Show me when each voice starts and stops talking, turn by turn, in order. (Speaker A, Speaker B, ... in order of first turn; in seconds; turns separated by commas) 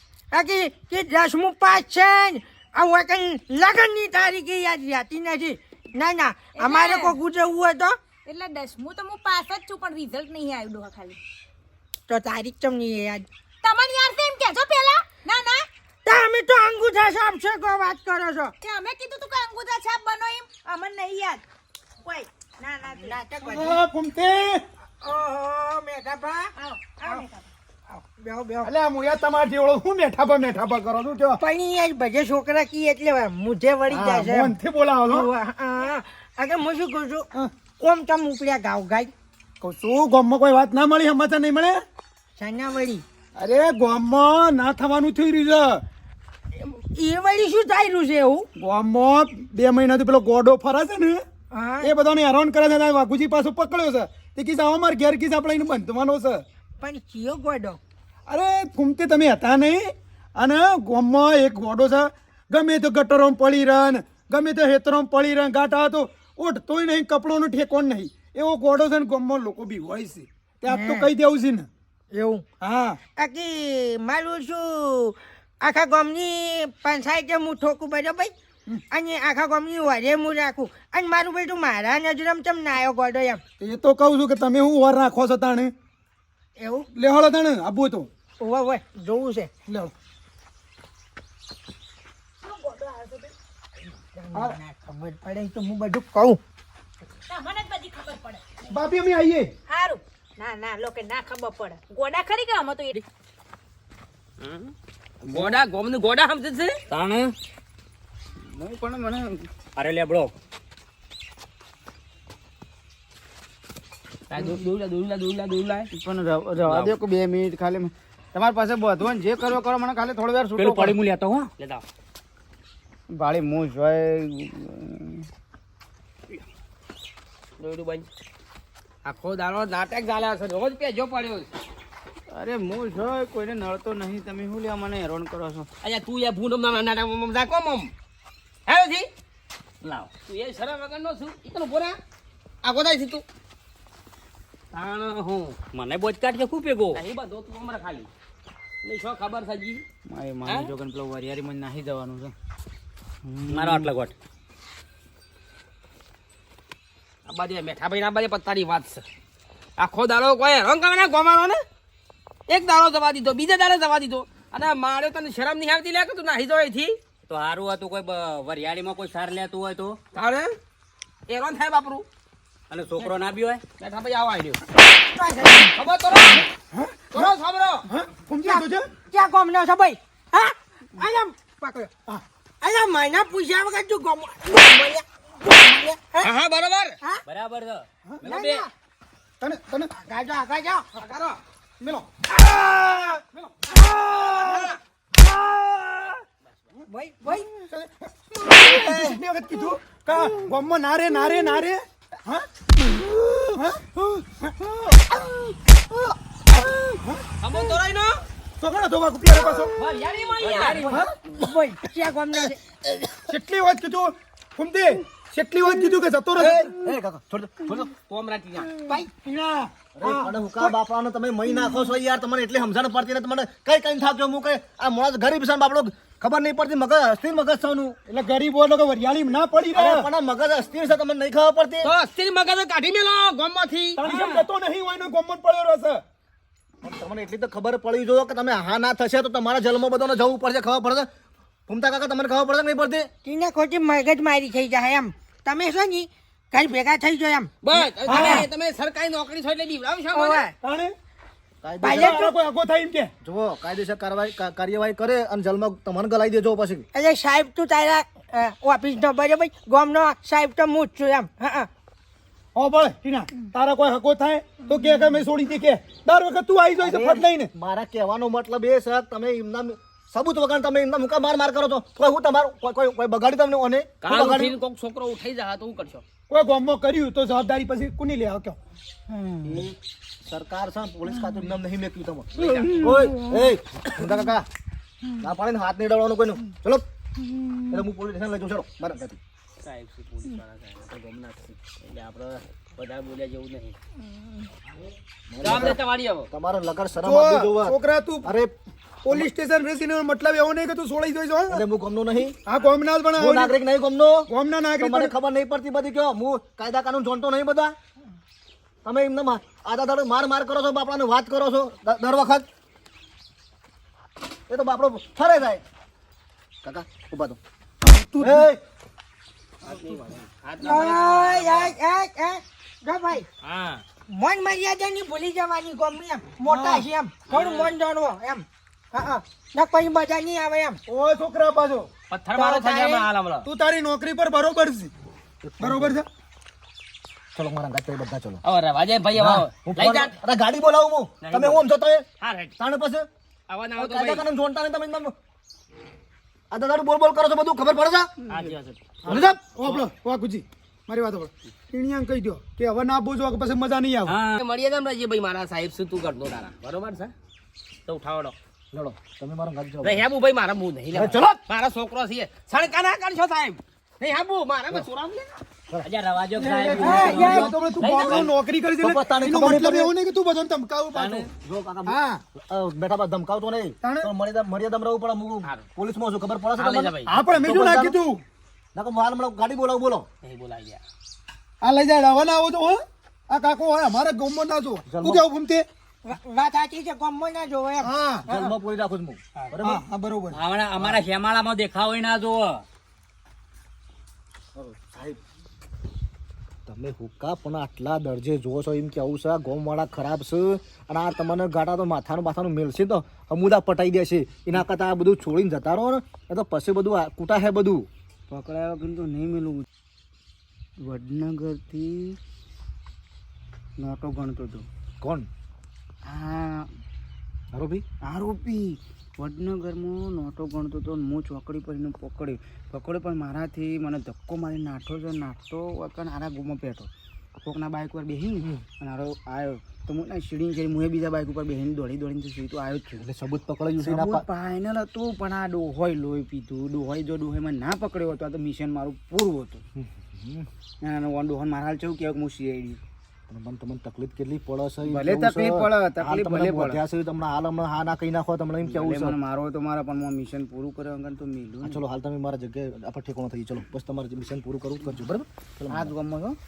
Speaker A: 0.3-8.0, Speaker B: 6.5-7.2, Speaker B: 8.3-11.2, Speaker A: 12.1-13.2, Speaker B: 13.6-15.7, Speaker A: 16.1-18.5, Speaker B: 18.6-21.4, Speaker B: 22.0-23.2, Speaker A: 22.8-23.8, Speaker C: 23.4-24.6, Speaker A: 25.0-27.3, Speaker B: 26.6-27.4, Speaker A: 27.9-28.7, Speaker C: 28.6-31.4, Speaker A: 31.4-34.5, Speaker C: 33.9-35.3, Speaker A: 35.1-37.3, Speaker A: 37.8-39.1, Speaker C: 39.6-41.8, Speaker A: 42.4-43.0, Speaker C: 43.4-45.8, Speaker A: 46.6-48.5, Speaker C: 48.6-51.2, Speaker A: 51.5-51.9, Speaker C: 51.8-56.4, Speaker A: 56.8-57.8, Speaker C: 58.3-71.7, Speaker A: 70.7-71.1, Speaker A: 72.1-72.4, Speaker C: 72.6-73.0, Speaker A: 73.2-78.3, Speaker A: 78.9-83.4, Speaker C: 83.6-85.7, Speaker A: 86.6-86.9, Speaker C: 86.9-88.1, Speaker A: 88.4-89.5, Speaker C: 89.7-89.9, Speaker B: 92.4-93.3, Speaker A: 94.2-96.4, Speaker B: 97.3-98.4, Speaker C: 98.7-99.5, Speaker B: 99.7-103.0, Speaker D: 105.2-106.8, Speaker E: 105.3-105.6, Speaker F: 106.9-107.3, Speaker E: 108.4-109.5, Speaker F: 109.8-110.3, Speaker D: 114.3-115.9, Speaker E: 115.9-121.0, Speaker F: 116.7-116.9, Speaker F: 120.6-121.5, Speaker D: 121.6-121.8, Speaker E: 123.1-125.3, Speaker D: 127.6-128.1, Speaker D: 129.1-131.5, Speaker E: 132.3-135.7, Speaker D: 135.8-137.9, Speaker D: 138.7-139.1, Speaker D: 139.8-142.0, Speaker D: 142.6-143.2, Speaker D: 144.7-145.6, Speaker F: 145.7-147.0, Speaker D: 146.9-148.1, Speaker D: 148.8-149.8, Speaker E: 150.1-152.3, Speaker D: 150.4-150.7, Speaker E: 153.2-153.9, Speaker F: 153.5-154.1, Speaker D: 157.3-159.1, Speaker D: 159.8-161.6, Speaker D: 162.5-167.0, Speaker F: 167.3-170.0, Speaker D: 170.1-170.5, Speaker D: 171.3-172.1, Speaker F: 172.7-173.6, Speaker D: 173.8-174.6, Speaker A: 175.0-175.7, Speaker D: 175.4-176.5, Speaker C: 176.7-177.3, Speaker D: 177.1-177.9, Speaker C: 177.9-178.9, Speaker A: 178.4-181.9, Speaker A: 182.6-186.3, Speaker D: 186.2-187.0, Speaker F: 187.3-188.6, Speaker A: 188.2-188.7, Speaker C: 189.4-189.9, Speaker A: 190.0-190.9, Speaker D: 191.0-191.4, Speaker C: 191.8-192.1, Speaker A: 193.7-194.7, Speaker C: 194.4-194.7, Speaker A: 196.9-197.5, Speaker C: 197.6-202.5, Speaker A: 198.7-199.0, Speaker C: 203.6-205.0, Speaker D: 207.4-208.2, Speaker C: 208.6-209.7, Speaker D: 209.8-210.9, Speaker F: 210.5-210.9, Speaker C: 210.8-211.1, Speaker A: 211.3-212.6, Speaker C: 213.3-216.7, Speaker G: 216.4-217.9, Speaker D: 218.1-218.7, Speaker A: 218.9-219.2, Speaker C: 219.2-220.7, Speaker G: 220.0-228.0, Speaker C: 228.1-230.1, Speaker G: 229.7-231.9, Speaker D: 231.8-234.4, Speaker C: 234.0-236.0, Speaker G: 236.8-241.1, Speaker G: 241.7-243.1, Speaker A: 243.2-248.5, Speaker D: 247.6-250.5, Speaker C: 248.1-248.5, Speaker A: 250.1-250.6, Speaker C: 250.6-250.9, Speaker G: 251.6-252.1, Speaker A: 251.8-252.3, Speaker C: 252.0-253.1, Speaker G: 253.2-256.9, Speaker A: 256.9-261.7, Speaker C: 262.6-267.5, Speaker G: 266.8-274.6, Speaker D: 274.0-276.0, Speaker C: 276.3-278.6, Speaker G: 279.4-284.5, Speaker D: 282.4-282.9, Speaker G: 285.2-286.9, Speaker G: 287.7-289.2, Speaker D: 289.6-293.8, Speaker G: 295.3-295.8, Speaker D: 295.4-296.3, Speaker C: 295.4-295.8, Speaker G: 296.3-298.5, Speaker C: 297.0-298.3, Speaker C: 299.0-301.6, Speaker G: 301.5-302.4, Speaker C: 302.5-303.5, Speaker G: 303.2-304.2, Speaker C: 304.3-305.1, Speaker G: 304.8-307.7, Speaker G: 308.8-312.5, Speaker G: 314.5-315.6, Speaker G: 316.6-317.4, Speaker C: 317.8-318.5, Speaker G: 318.2-318.6, Speaker D: 319.6-321.7, Speaker A: 320.6-323.3, Speaker D: 323.4-323.8, Speaker A: 324.1-330.8, Speaker C: 326.5-326.9, Speaker D: 327.3-327.7, Speaker C: 330.9-331.9, Speaker D: 332.1-333.5, Speaker A: 332.4-333.1, Speaker C: 333.4-334.9, Speaker G: 335.4-336.0, Speaker C: 335.6-336.1, Speaker G: 337.4-338.4, Speaker D: 338.4-340.1, Speaker G: 339.1-342.1, Speaker D: 341.2-341.6, Speaker D: 342.2-342.5, Speaker G: 342.6-343.1, Speaker D: 343.5-344.2, Speaker G: 343.8-345.1, Speaker G: 346.5-348.1, Speaker D: 348.3-349.8, Speaker G: 349.1-349.4, Speaker C: 349.1-354.2, Speaker F: 354.1-354.4, Speaker D: 354.4-357.1, Speaker D: 357.9-358.4, Speaker G: 358.7-360.1, Speaker D: 359.8-365.4, Speaker G: 360.9-361.4, Speaker F: 365.8-368.1, Speaker C: 366.4-371.3, Speaker A: 366.8-367.5, Speaker G: 367.0-369.9, Speaker D: 367.0-367.3, Speaker F: 371.0-371.3, Speaker G: 371.4-378.0, Speaker C: 371.9-372.2, Speaker C: 373.8-374.1, Speaker D: 376.6-377.1, Speaker C: 377.1-378.2, Speaker G: 378.8-380.1, Speaker D: 380.2-380.8, Speaker C: 381.6-385.6, Speaker G: 384.9-385.3, Speaker A: 386.1-388.5, Speaker C: 387.8-388.3, Speaker G: 388.3-389.8, Speaker C: 389.6-390.4, Speaker F: 390.4-392.6, Speaker G: 394.6-395.2, Speaker G: 396.7-407.9, Speaker E: 408.3-409.7, Speaker E: 410.8-412.2, Speaker E: 413.8-414.7, Speaker G: 415.0-415.3, Speaker E: 416.1-416.7, Speaker G: 417.5-417.9, Speaker E: 418.0-426.9, Speaker E: 427.4-433.1, Speaker G: 433.0-434.3, Speaker E: 433.8-439.6, Speaker G: 439.8-440.5, Speaker E: 440.8-442.8, Speaker G: 443.3-449.2, Speaker E: 444.9-446.8, Speaker E: 448.7-451.8, Speaker G: 451.6-455.9, Speaker E: 455.7-456.4